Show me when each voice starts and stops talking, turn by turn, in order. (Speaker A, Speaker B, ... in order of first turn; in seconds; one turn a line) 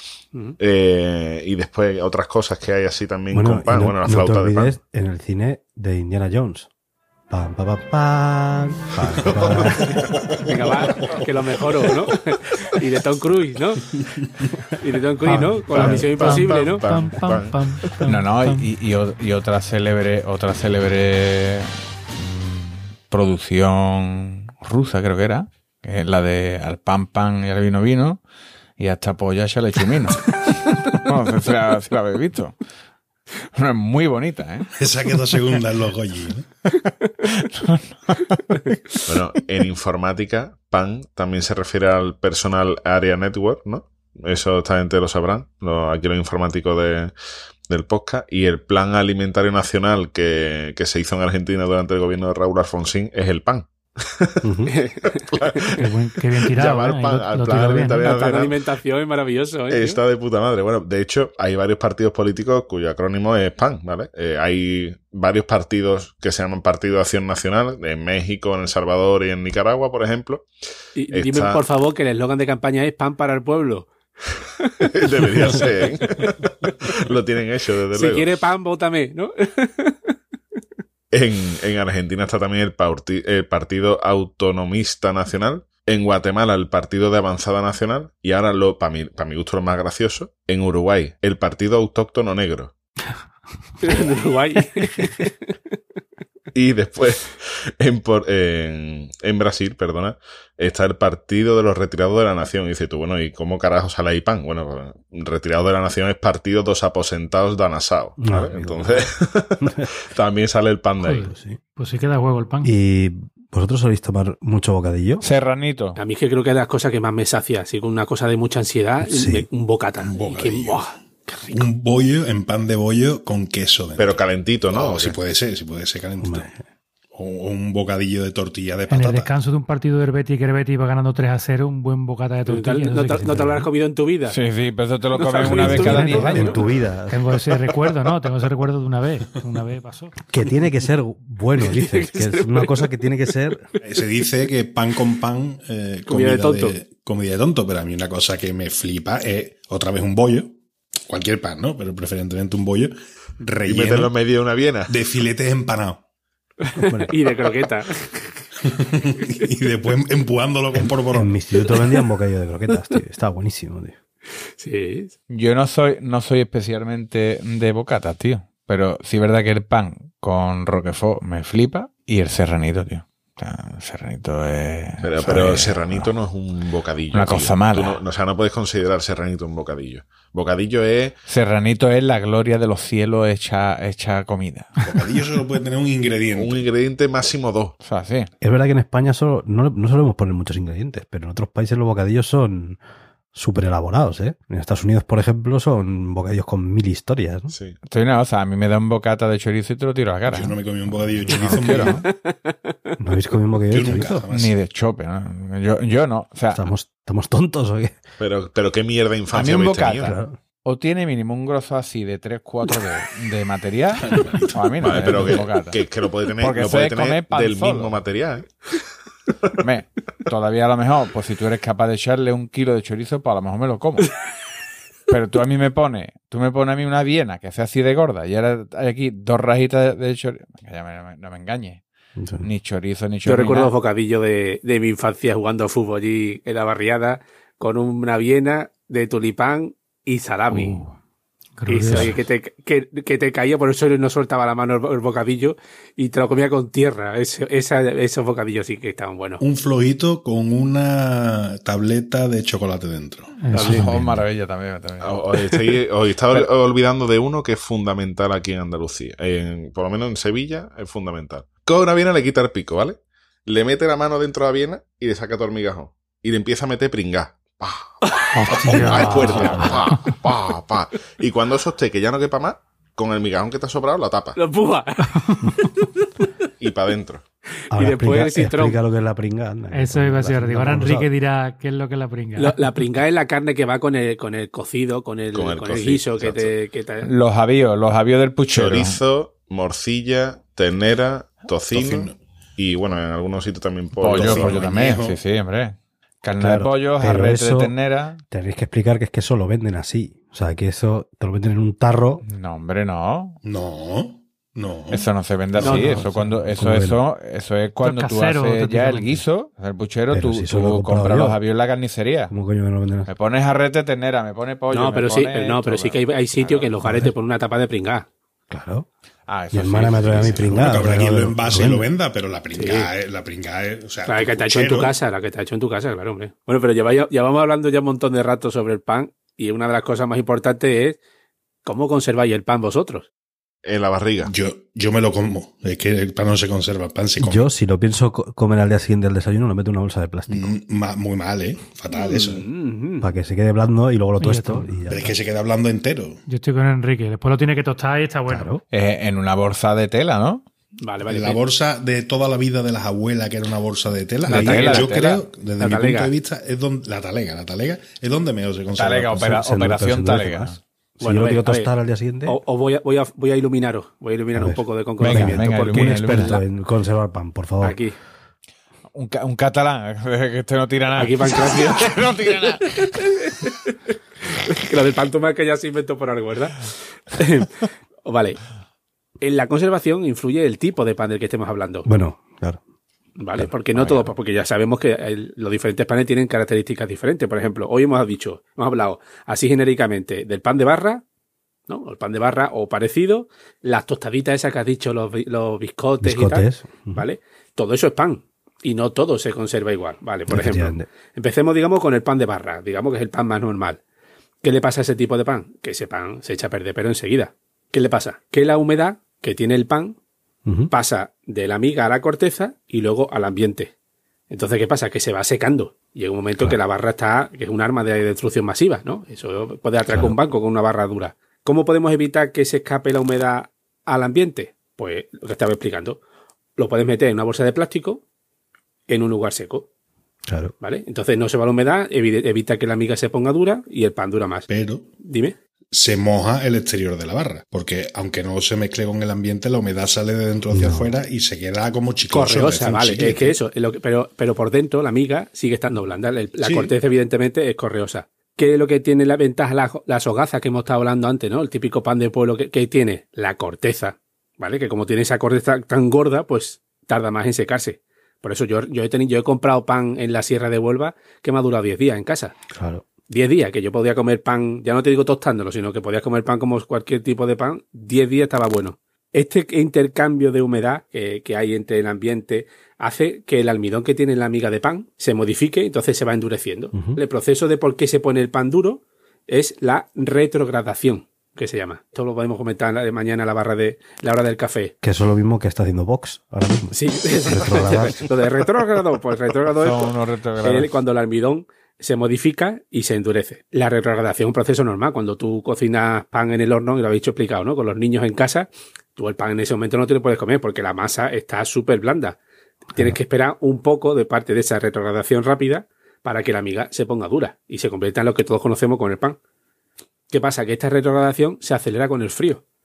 Speaker A: 0.6-4.8
Speaker B: 3.3-6.7
Speaker B: 7.3-10.0
Speaker A: 9.2-10.2
Speaker C: 10.4-13.8
Speaker C: 14.7-16.9
Speaker D: 15.2-18.7
Speaker B: 15.3-16.1
Speaker A: 15.7-17.6
Speaker E: 18.1-28.2
Speaker E: 28.8-32.6
Speaker E: 33.5-34.7
Speaker F: 34.8-36.5
Speaker E: 36.7-38.7
Speaker A: 39.0-47.1
Speaker A: 47.7-54.4
Speaker B: 54.4-54.7
Speaker C: 54.7-55.8
Speaker A: 55.1-55.6
Speaker D: 55.8-58.1
Speaker A: 56.4-58.6
Speaker C: 58.0-60.0
Speaker A: 59.7-70.5
Speaker C: 71.0-73.9
Speaker A: 71.1-71.6
Speaker C: 74.6-76.3
Speaker A: 74.8-78.3
Speaker C: 77.9-80.1
Speaker A: 81.1-92.7
Speaker C: 93.8-95.5
Speaker A: 96.5-111.3
Speaker B: 108.2-109.8
Speaker D: 111.0-112.7
Speaker B: 111.2-111.6
Speaker B: 112.6-115.2
Speaker E: 115.2-116.0
Speaker C: 116.0-121.7
Speaker B: 119.0-119.5
Speaker F: 120.0-120.8
Speaker F: 121.5-126.5
Speaker A: 124.0-125.2
Speaker B: 126.2-126.5
Speaker F: 127.1-129.3
Speaker D: 128.9-133.7
Speaker C: 132.4-134.4
Speaker E: 134.3-136.4
Speaker C: 135.1-136.6
Speaker B: 135.5-137.4
Speaker D: 135.6-140.1
Speaker B: 140.3-143.7
Speaker C: 141.6-143.1
Speaker F: 143.8-154.1
Speaker C: 146.1-146.8
Speaker A: 153.7-154.9
Speaker F: 154.9-156.0
Speaker C: 156.6-158.4
Speaker B: 156.8-157.1
Speaker F: 158.6-161.3
Speaker B: 160.7-163.9
Speaker C: 161.6-161.9
Speaker C: 164.6-165.1
Speaker E: 165.3-176.1
Speaker A: 175.0-181.2
Speaker E: 177.1-178.0
Speaker E: 181.2-184.7
Speaker F: 184.8-186.7
Speaker A: 186.3-187.7
Speaker E: 187.8-188.3
Speaker B: 188.4-192.8
Speaker B: 193.3-197.5
Speaker A: 197.5-197.8
Speaker E: 197.8-200.5
Speaker F: 200.3-202.1
Speaker E: 201.3-202.0
Speaker C: 202.0-202.9
Speaker B: 203.0-204.2
Speaker F: 203.7-204.5
Speaker E: 204.3-206.7
Speaker B: 206.5-208.0
Speaker A: 208.2-210.2
Speaker E: 209.3-215.8
Speaker B: 209.9-210.3
Speaker F: 214.0-215.3
Speaker A: 214.8-218.5
Speaker E: 216.4-218.0
Speaker E: 219.6-224.1
Speaker E: 225.1-231.8
Speaker B: 232.2-232.4
Speaker E: 232.4-233.7
Speaker C: 233.2-240.8
Speaker D: 240.5-240.9
Speaker D: 241.6-242.2
Speaker C: 241.7-249.4
Speaker F: 249.4-253.3
Speaker D: 253.4-254.2
Speaker E: 253.5-255.7
Speaker C: 253.6-253.8
Speaker A: 255.0-267.9
Speaker C: 268.1-268.3
Speaker D: 268.3-270.0
Speaker A: 268.5-274.4
Speaker F: 268.7-269.2
Speaker C: 274.3-276.1
Speaker A: 276.6-277.2
Speaker B: 277.7-281.1
Speaker C: 277.7-278.8
Speaker D: 279.7-282.8
Speaker C: 282.4-287.1
Speaker A: 285.3-286.5
Speaker E: 287.0-289.0
Speaker A: 288.5-294.6
Speaker F: 291.7-292.1
Speaker E: 294.0-298.2
Speaker F: 294.1-295.2
Speaker B: 296.4-297.7
Speaker B: 298.3-302.2
Speaker E: 302.2-303.4
Speaker F: 303.4-306.1
Speaker E: 304.9-312.3
Speaker B: 305.6-307.0
Speaker D: 307.8-309.2
Speaker B: 310.1-311.4
Speaker B: 312.3-313.1
Speaker E: 313.1-316.7
Speaker C: 314.7-318.1
Speaker B: 316.8-317.1
Speaker B: 318.5-318.9
Speaker E: 319.3-320.7
Speaker B: 319.5-321.9
Speaker F: 320.2-324.9
Speaker C: 322.5-322.9
Speaker C: 324.0-331.0
Speaker C: 331.6-333.1
Speaker A: 333.6-334.3
Speaker F: 334.2-337.5
Speaker B: 337.2-340.5
Speaker F: 340.3-342.4
Speaker C: 341.9-343.1
Speaker B: 343.0-345.1
Speaker D: 344.2-344.7
Speaker F: 344.9-346.2
Speaker D: 346.3-348.5
Speaker B: 348.3-348.6
Speaker E: 348.7-350.4
Speaker C: 350.8-351.4
Speaker F: 351.0-359.2
Speaker E: 354.3-355.2
Speaker C: 354.3-356.1
Speaker E: 358.7-360.6
Speaker B: 359.1-362.4
Speaker C: 361.0-361.7
Speaker C: 362.2-366.4
Speaker B: 364.3-367.8
Speaker E: 365.0-366.4
Speaker C: 367.6-367.9
Speaker E: 368.9-372.9
Speaker C: 370.9-373.7
Speaker C: 374.4-378.4
Speaker C: 379.2-381.9
Speaker B: 381.9-382.6
Speaker C: 383.2-391.0
Speaker E: 383.7-384.1
Speaker C: 391.7-403.8
Speaker B: 396.0-397.0
Speaker B: 400.3-400.9
Speaker C: 404.4-410.0
Speaker B: 410.4-410.7
Speaker C: 410.7-413.7
Speaker C: 414.3-426.0
Speaker C: 426.6-428.0
Speaker C: 428.9-429.6
Speaker B: 430.3-430.5
Speaker C: 430.6-434.5
Speaker F: 434.5-434.9
Speaker C: 435.0-435.4
Speaker F: 435.7-443.4
Speaker B: 440.5-440.9
Speaker C: 442.1-462.4
Speaker F: 446.4-446.7
Speaker B: 462.5-462.8
Speaker C: 463.1-484.7
Speaker B: 476.7-477.0
Speaker B: 484.8-488.1
Speaker C: 486.7-502.2
Speaker E: 489.6-490.7
Speaker C: 502.7-509.2
Speaker C: 510.1-512.4